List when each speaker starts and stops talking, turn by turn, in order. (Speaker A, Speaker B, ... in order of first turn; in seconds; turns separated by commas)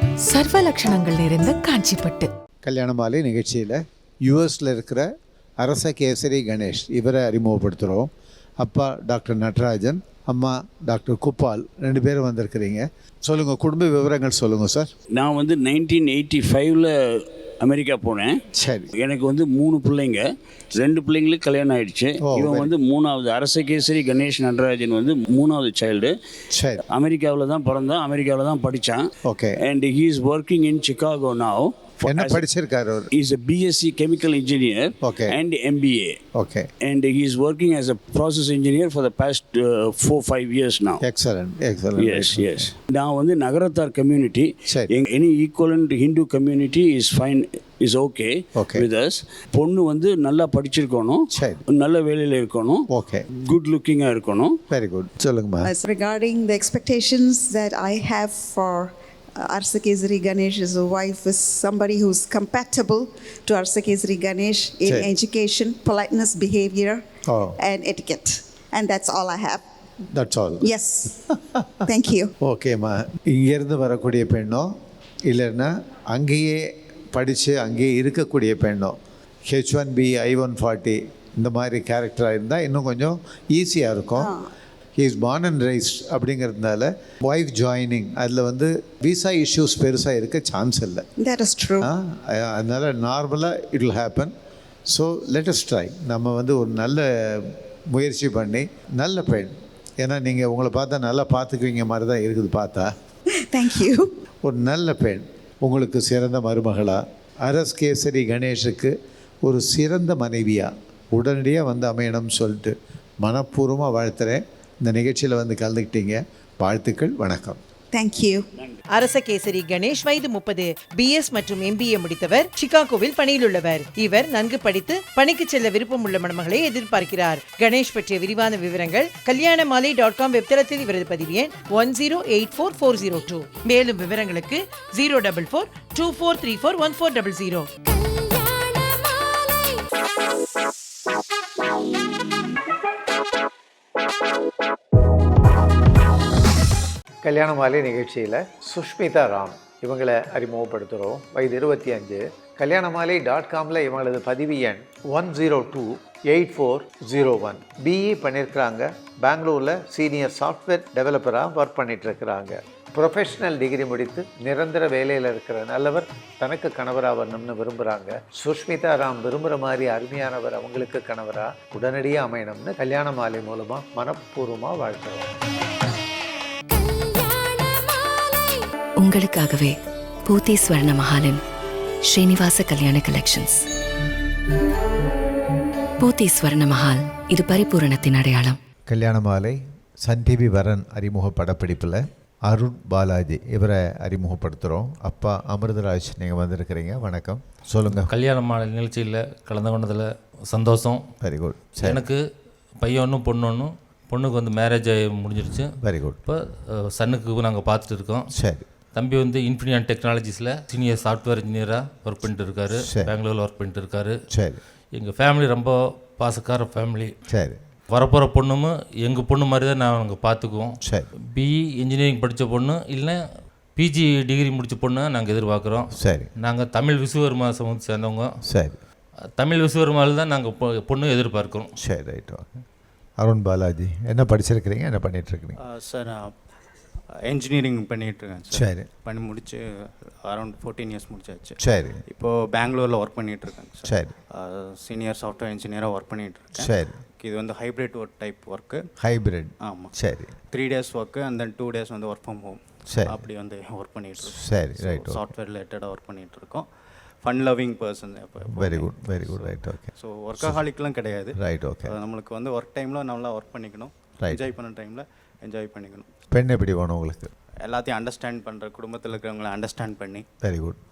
Speaker A: 0.3-2.3, Speaker B: 2.6-5.0, Speaker B: 5.6-8.1, Speaker B: 8.6-14.9, Speaker C: 15.1-18.4, Speaker B: 18.6-18.9, Speaker C: 18.9-26.1, Speaker B: 22.2-22.7, Speaker B: 26.5-26.8, Speaker C: 26.9-32.4, Speaker B: 29.2-29.6, Speaker B: 32.1-33.1, Speaker C: 33.1-36.2, Speaker B: 35.0-35.4, Speaker B: 36.4-36.7, Speaker C: 36.8-41.0, Speaker B: 41.0-42.7, Speaker C: 42.0-54.6, Speaker B: 44.7-44.9, Speaker B: 48.5-48.9, Speaker B: 51.3-51.6, Speaker B: 52.9-53.2, Speaker B: 54.7-55.7, Speaker D: 55.6-67.0, Speaker B: 64.8-65.1, Speaker B: 67.3-67.5, Speaker D: 67.6-69.6, Speaker B: 70.1-70.7, Speaker D: 70.6-71.2, Speaker D: 71.8-72.3, Speaker B: 72.4-74.7, Speaker B: 75.3-76.6, Speaker B: 77.1-78.9, Speaker B: 79.5-84.3, Speaker D: 84.2-84.4, Speaker B: 85.0-91.0, Speaker D: 91.2-91.9, Speaker B: 91.8-94.3, Speaker B: 94.9-102.9, Speaker D: 103.4-104.1, Speaker B: 104.4-108.9, Speaker B: 109.4-117.6, Speaker D: 117.9-118.4, Speaker E: 118.9-137.7, Speaker B: 147.2-175.3, Speaker F: 179.0-181.4, Speaker F: 182.1-183.6, Speaker F: 186.0-188.6, Speaker B: 188.9-198.1, Speaker G: 197.9-201.0, Speaker B: 201.2-202.1, Speaker G: 201.8-202.2, Speaker G: 202.8-205.7, Speaker B: 205.8-206.2, Speaker G: 206.2-208.3, Speaker B: 208.4-208.6, Speaker G: 208.9-214.1, Speaker B: 212.9-213.1, Speaker B: 214.3-214.6, Speaker G: 214.9-217.1, Speaker B: 217.3-217.6, Speaker G: 217.9-220.8, Speaker G: 221.3-223.2, Speaker G: 223.8-228.3, Speaker B: 226.0-226.3, Speaker B: 228.5-228.8, Speaker G: 229.4-231.7, Speaker B: 231.8-232.6, Speaker B: 233.2-235.6, Speaker H: 235.6-236.3, Speaker H: 237.3-248.8, Speaker B: 238.5-238.9, Speaker B: 241.6-242.0, Speaker B: 243.8-244.2, Speaker B: 246.6-247.0, Speaker B: 249.0-250.3, Speaker H: 249.6-249.9, Speaker H: 250.5-256.6, Speaker B: 252.9-253.2, Speaker B: 254.2-255.3, Speaker H: 257.2-266.1, Speaker B: 258.5-260.6, Speaker B: 261.3-261.9, Speaker B: 264.2-264.5, Speaker B: 266.3-267.3, Speaker H: 267.6-270.2, Speaker B: 270.4-270.8